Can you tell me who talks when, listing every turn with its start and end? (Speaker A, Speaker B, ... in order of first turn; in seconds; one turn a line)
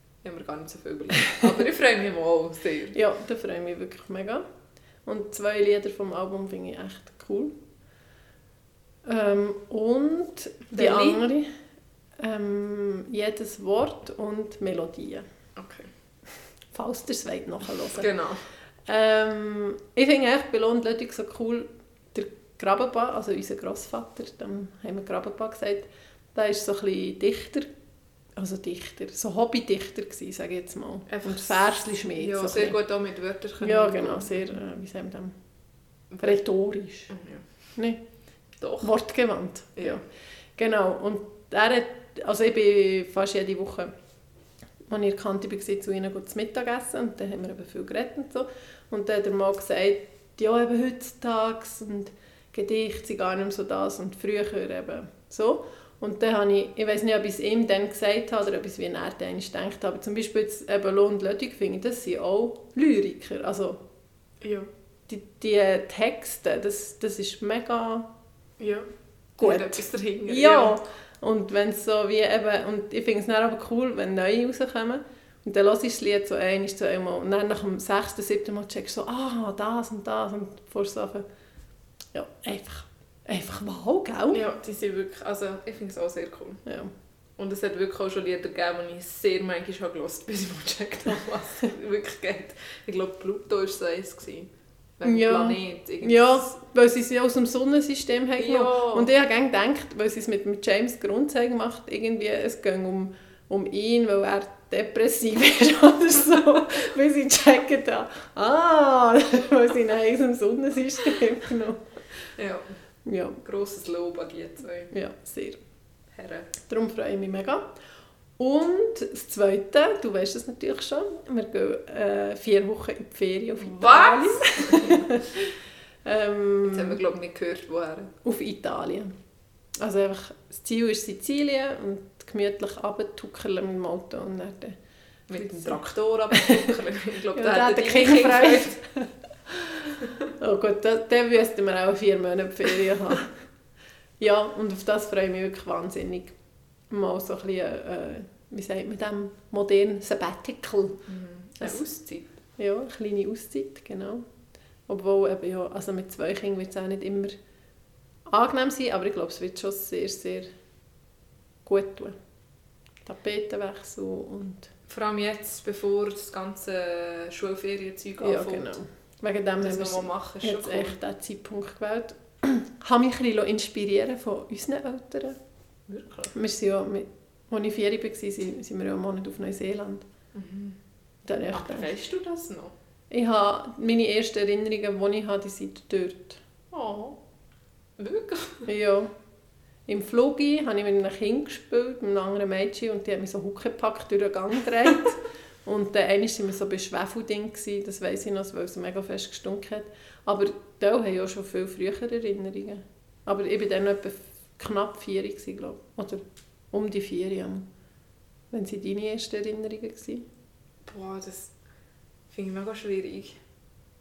Speaker A: 0.2-3.0
Speaker B: 2.9-4.4
Speaker B: 5.0-7.5
Speaker B: 9.1-11.5
Speaker A: 10.7-11.2
Speaker B: 12.2-15.2
Speaker A: 15.6-15.9
Speaker B: 16.7-18.1
Speaker A: 17.9-18.4
Speaker B: 18.9-27.7
Speaker B: 28.4-32.8
Speaker A: 31.1-34.6
Speaker B: 33.6-35.3
Speaker A: 36.1-36.4
Speaker B: 36.2-37.1
Speaker A: 37.1-37.5
Speaker B: 37.8-38.0
Speaker A: 38.6-38.9
Speaker B: 38.8-40.0
Speaker B: 40.6-43.9
Speaker B: 44.9-63.8
Speaker A: 64.4-64.7
Speaker B: 65.1-68.1
Speaker A: 68.6-68.9
Speaker B: 69.4-81.2
Speaker A: 69.4-70.8
Speaker B: 82.1-84.4
Speaker A: 84.3-86.6
Speaker B: 86.7-86.9
Speaker A: 87.4-96.5
Speaker B: 95.0-111.8
Speaker A: 98.4-99.1
Speaker A: 112.3-112.7
Speaker B: 113.0-113.4
Speaker A: 113.4-114.9
Speaker B: 114.9-115.6
Speaker A: 116.1-116.5
Speaker B: 116.6-117.7
Speaker B: 118.4-125.5
Speaker A: 123.6-125.2
Speaker B: 126.0-127.0
Speaker A: 126.7-128.1
Speaker B: 128.2-129.1
Speaker B: 129.8-134.8
Speaker A: 135.3-138.8
Speaker B: 135.3-135.8
Speaker B: 136.3-136.7
Speaker B: 137.3-143.3
Speaker B: 144.2-146.3
Speaker B: 146.9-151.0
Speaker A: 151.1-152.3
Speaker B: 152.6-154.2
Speaker B: 154.9-157.3
Speaker B: 158.3-160.5
Speaker B: 161.6-162.1
Speaker B: 163.1-164.7
Speaker A: 164.9-168.7
Speaker B: 168.2-175.4
Speaker A: 169.6-171.0
Speaker A: 175.9-176.3
Speaker B: 176.3-180.0
Speaker A: 180.3-180.8
Speaker B: 181.2-181.9
Speaker A: 181.5-182.7
Speaker B: 183.1-186.4
Speaker A: 186.7-187.2
Speaker A: 188.0-188.7
Speaker B: 188.7-189.1
Speaker B: 189.9-207.7
Speaker B: 208.5-210.2
Speaker A: 210.8-211.5
Speaker A: 212.3-213.4